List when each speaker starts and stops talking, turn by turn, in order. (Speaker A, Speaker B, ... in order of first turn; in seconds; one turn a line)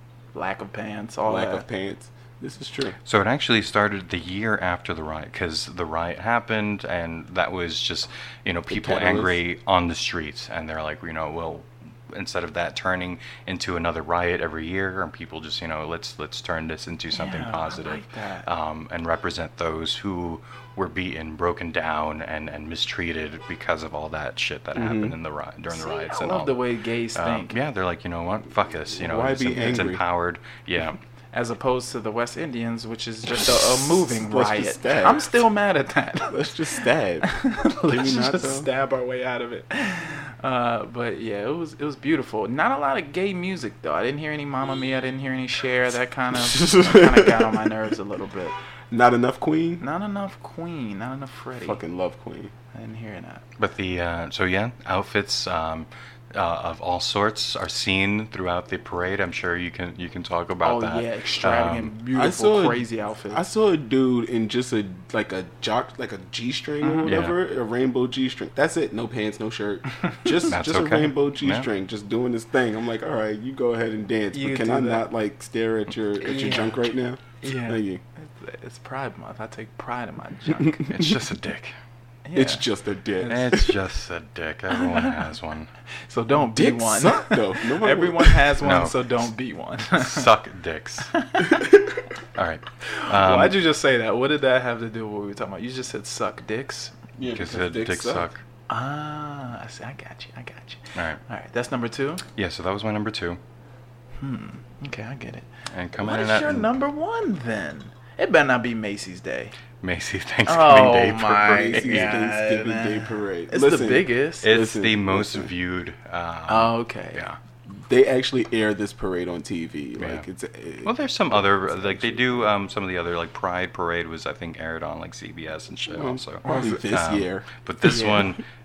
Speaker A: 0.3-1.6
Speaker B: 1.2-3.0
Speaker C: 3.1-31.0
Speaker B: 8.7-9.4
Speaker A: 17.1-18.5
Speaker B: 24.7-25.2
Speaker A: 25.7-27.6
Speaker B: 29.0-30.0
Speaker A: 31.3-48.5
Speaker B: 34.1-35.3
Speaker B: 36.3-37.3
Speaker B: 37.8-38.7
Speaker B: 46.4-47.6
Speaker B: 48.9-49.8
Speaker A: 49.8-51.8
Speaker B: 51.6-52.5
Speaker A: 52.7-53.4
Speaker C: 53.6-61.9
Speaker A: 60.6-63.4
Speaker B: 62.1-78.0
Speaker A: 66.8-67.2
Speaker C: 67.1-67.4
Speaker A: 70.0-70.5
Speaker C: 70.5-71.7
Speaker A: 74.3-75.1
Speaker A: 76.2-76.8
Speaker A: 77.4-80.9
Speaker C: 80.8-81.8
Speaker A: 82.2-82.7
Speaker B: 82.3-83.6
Speaker A: 83.2-83.5
Speaker C: 83.3-85.7
Speaker A: 84.8-85.2
Speaker A: 86.1-90.3
Speaker B: 86.3-88.5
Speaker C: 88.6-89.3
Speaker C: 90.0-91.1
Speaker A: 91.1-91.7
Speaker C: 92.3-93.6
Speaker A: 92.9-97.0
Speaker B: 97.2-98.3
Speaker C: 97.3-98.4
Speaker A: 98.7-102.2
Speaker C: 101.0-101.2
Speaker C: 102.4-103.4
Speaker A: 104.2-109.5
Speaker C: 105.7-106.7
Speaker C: 109.8-112.2
Speaker A: 110.5-114.5
Speaker B: 111.5-115.5
Speaker C: 114.4-117.4
Speaker A: 116.5-117.2
Speaker B: 117.8-122.5
Speaker C: 120.0-120.2
Speaker C: 120.8-128.4
Speaker B: 125.9-128.3
Speaker A: 127.9-128.3